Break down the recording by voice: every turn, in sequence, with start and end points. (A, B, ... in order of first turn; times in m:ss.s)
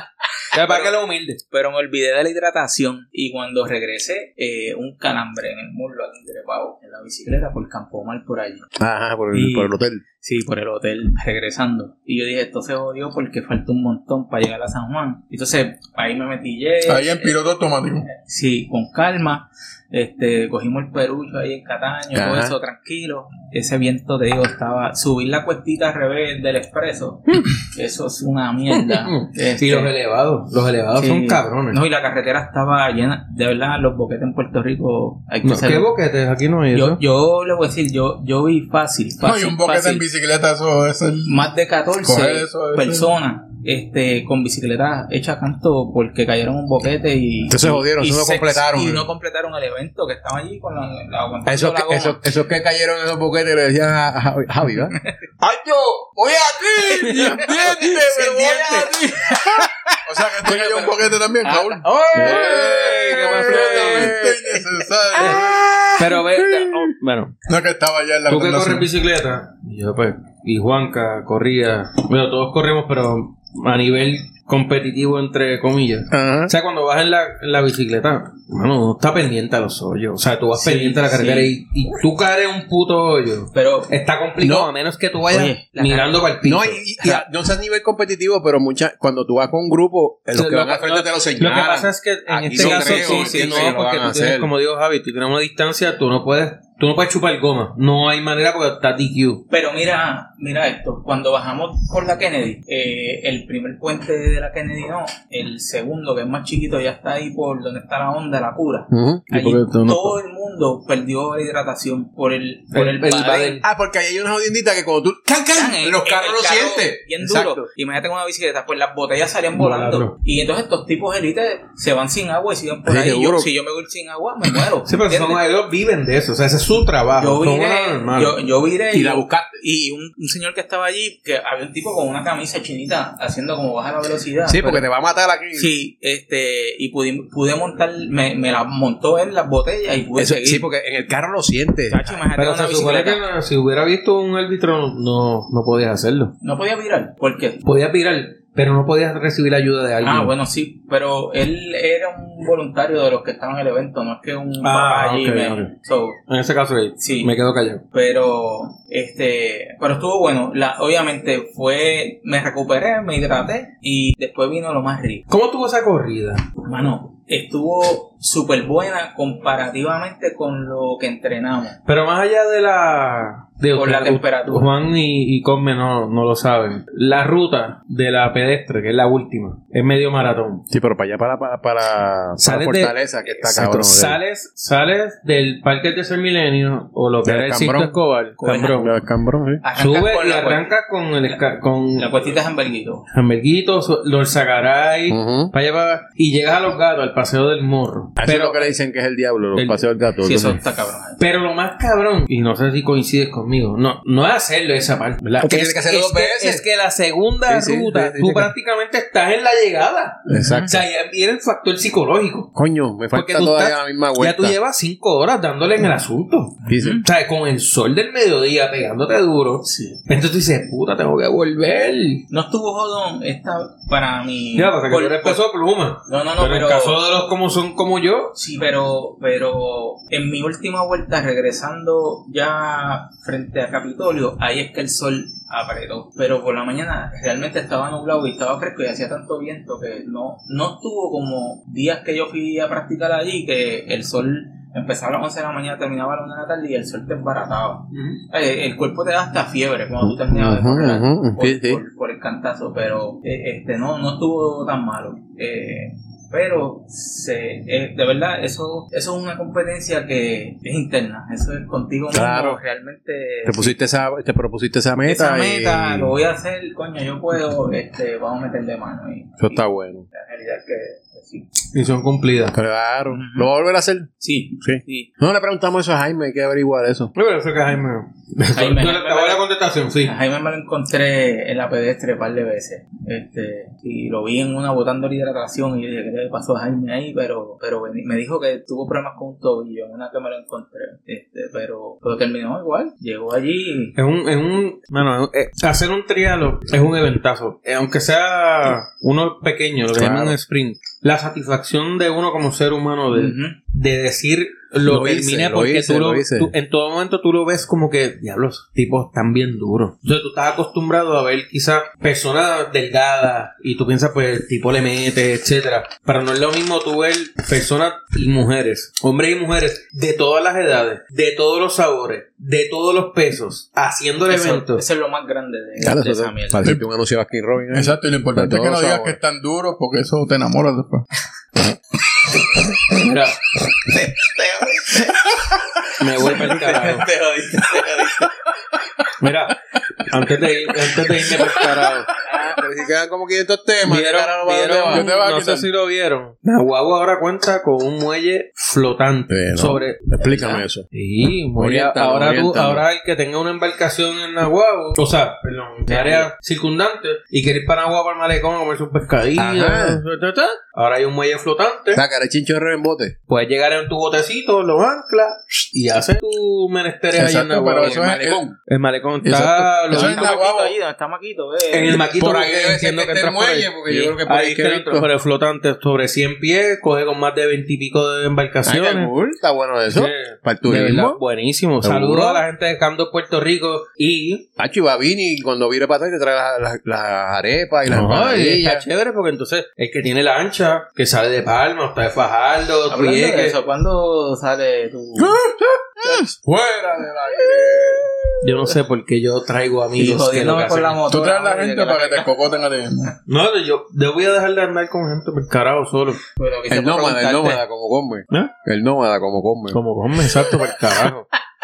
0:00.5-0:01.4 A
0:00.6-0:00.9 B
0:01.5-0:08.6 B
0:08.8-0:10.0 C
0:09.3-0:17.4 B
0:16.9-0:18.1 D
0:18.0-0:29.9 B
0:22.1-0:22.6 C
0:29.6-0:31.8 A
0:31.0-0:35.9 B
0:35.4-0:37.0 A
0:36.7-0:40.0 B
0:39.2-0:41.4 D
0:41.2-0:52.2 B
0:42.0-0:43.1 D
0:47.5-0:49.1 C
0:51.4-1:01.0 C
0:57.1-0:57.4 A
0:57.1-0:59.1 B
1:00.0-1:05.7 D
1:01.4-1:01.8 B
1:01.8-1:04.2 A
1:02.1-1:06.9 C
1:05.2-1:07.3 A
1:07.5-1:08.9 D
1:08.3-1:26.8 A
1:16.1-1:16.5 C
1:20.6-1:21.5 B
1:23.5-1:23.9 B
1:24.4-1:24.7 C
1:25.3-1:26.3 B
1:26.4-1:34.5 C
1:30.3-1:39.4 A
1:32.5-1:33.8 B
1:39.5-1:53.6 B
1:48.9-1:49.2 C
1:49.3-1:50.2 A
1:52.7-1:53.6 A
1:53.6-1:57.6 C
1:55.5-2:05.4 B
1:59.5-2:00.2 A
2:02.9-2:03.5 C
2:04.8-2:08.4 A
2:07.2-2:14.8 B
2:08.9-2:09.6 C
2:14.5-2:15.7 C
2:15.5-2:20.7 B
2:20.2-2:22.2 C
2:21.9-2:23.2 B
2:22.4-2:26.3 A
2:26.4-2:27.6 B
2:27.6-2:30.3 A
2:30.0-2:36.2 B
2:34.6-2:35.7 A
2:36.3-2:37.8 A
2:37.0-2:37.3 B
2:37.9-2:45.2 B
2:45.3-2:46.4 A
2:46.6-2:51.8 B
2:51.8-3:00.6 A
2:53.8-2:54.7 B
3:00.7-3:04.2 C
3:02.4-3:08.9 A
3:07.2-3:08.0 C
3:08.4-3:08.8 B
3:08.7-3:09.6 C
3:09.6-3:10.7 B
3:09.8-3:12.3 A
3:12.0-3:13.0 B
3:13.1-3:18.7 A
3:15.1-3:15.5 C
3:18.2-3:20.6 C
3:19.5-3:19.8 A
3:20.2-3:21.2 B
3:21.2-3:32.5 A
3:25.4-3:26.6 C
3:27.5-3:28.5 C
3:30.3-3:30.8 C
3:30.3-3:30.8 B
3:32.6-3:34.6 C
3:33.1-3:42.2 A
3:36.7-3:37.0 C
3:36.7-3:37.0 B
3:39.7-3:40.0 B
3:42.3-3:45.4 B
3:44.6-3:48.4 A
3:46.0-3:47.0 B
3:48.4-4:23.8 B
4:07.9-4:08.2 A
4:10.0-4:11.8 C
4:22.1-4:22.6 C
4:23.4-4:26.1 C
4:25.0-4:31.5 B
4:29.4-4:30.0 C
4:31.7-4:32.5 A
4:32.5-4:34.1 C
4:33.1-4:33.5 B
4:34.2-4:35.1 B
4:34.6-4:37.1 C
4:37.1-4:40.1 A
4:38.5-4:39.4 B
4:40.0-4:54.0 B
4:54.0-5:24.8 A
4:59.9-5:00.4 C
5:03.1-5:03.6 B
5:04.8-5:06.5 C
5:24.3-5:26.7 B
5:25.8-5:29.2 C
5:27.7-5:31.0 D
5:32.9-5:33.4 A
5:33.8-5:35.3 B
5:36.0-5:37.0 A
5:36.2-5:38.3 B
5:39.2-5:42.1 A
5:42.2-5:45.0 C
5:43.8-6:02.0 A
5:44.9-5:45.7 D
5:49.3-5:50.9 C
5:51.5-5:52.8 C
5:55.9-5:56.2 C
5:59.4-6:00.0 C
6:01.9-6:03.2 C
6:03.3-6:08.1 A
6:07.1-6:08.5 D
6:07.2-6:08.5 C
6:08.7-6:10.4 A
6:09.2-6:10.7 D
6:09.9-6:12.0 B
6:11.7-6:19.1 A
6:12.1-6:15.1 C
6:18.6-6:21.2 C
6:19.9-6:24.4 A
6:21.8-6:22.4 C
6:24.6-6:28.8 C
6:27.9-6:33.6 A
6:32.9-6:35.4 B
6:35.2-6:38.4 C
6:38.4-6:41.0 A
6:40.0-6:42.3 B
6:41.1-6:43.1 D
6:43.3-6:46.2 A
6:46.4-6:47.6 B
6:46.7-6:51.1 C
6:49.7-6:51.3 A